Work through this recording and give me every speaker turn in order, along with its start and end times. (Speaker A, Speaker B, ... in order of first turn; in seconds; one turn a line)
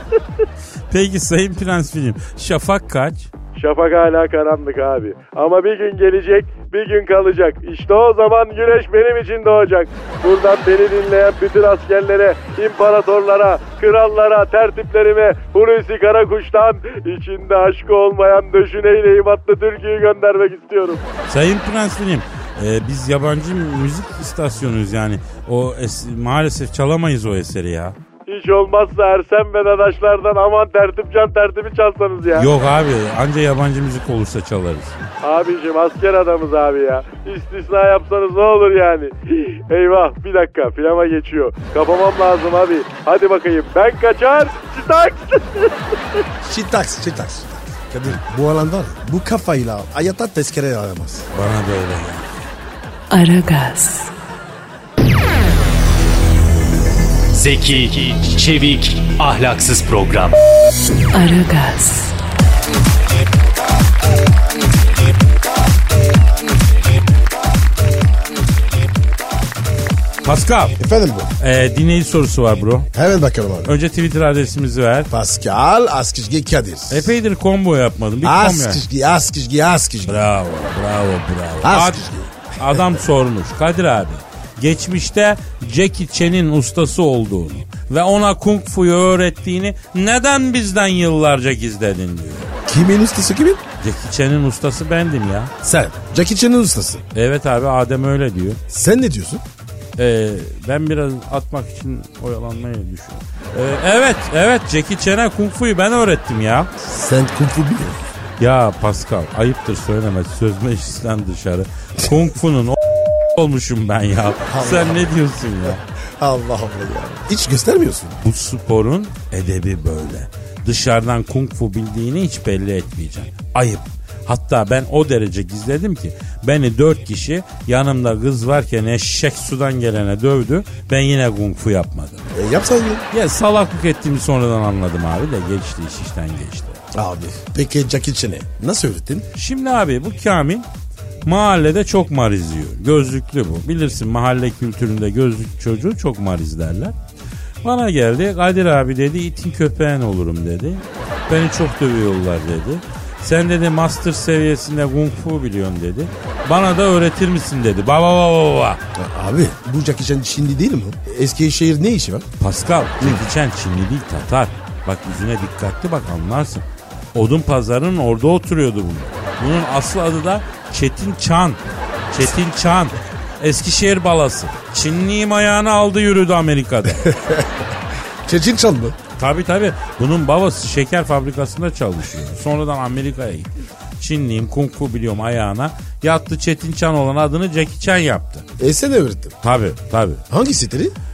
Speaker A: 0.9-3.3
Speaker B: 3.5-21.0
Speaker A: 21.3-27.9
Speaker B: 28.3-32.5
Speaker A: 32.4-34.9
Speaker B: 35.2-45.8
Speaker C: 46.4-51.3
Speaker A: 51.3-52.3
Speaker D: 53.1-54.1
Speaker E: 57.3-60.4
Speaker D: 61.1-62.1
Speaker A: 70.2-70.8
Speaker C: 70.8-71.3
Speaker A: 71.4-72.9
Speaker C: 72.9-73.7
Speaker A: 73.7-75.1
Speaker C: 75.1-77.1
Speaker A: 76.9-78.8
Speaker C: 78.2-80.2
Speaker A: 80.1-82.0
Speaker C: 81.6-83.0
Speaker A: 82.6-92.5
Speaker C: 92.7-93.6
Speaker A: 93.8-95.5
Speaker C: 95.6-97.0
Speaker A: 97.1-98.6
Speaker C: 98.7-99.4
Speaker A: 100.0-106.7
Speaker C: 106.8-108.0
Speaker A: 108.4-112.8
Speaker A: 113.3-115.8
Speaker C: 114.4-118.2
Speaker A: 118.2-132.2
Speaker C: 132.3-133.0
Speaker A: 133.1-136.8
Speaker C: 136.9-139.3
Speaker A: 139.3-140.7
Speaker A: 141.2-146.9
Speaker A: 147.6-158.8
Speaker C: 158.9-162.2
Speaker A: 162.4-171.6
Speaker A: 172.1-177.1
Speaker C: 177.0-177.5
Speaker C: 178.2-178.9
Speaker A: 179.2-188.4
Speaker C: 188.6-189.3
Speaker A: 189.4-190.2
Speaker C: 190.3-190.9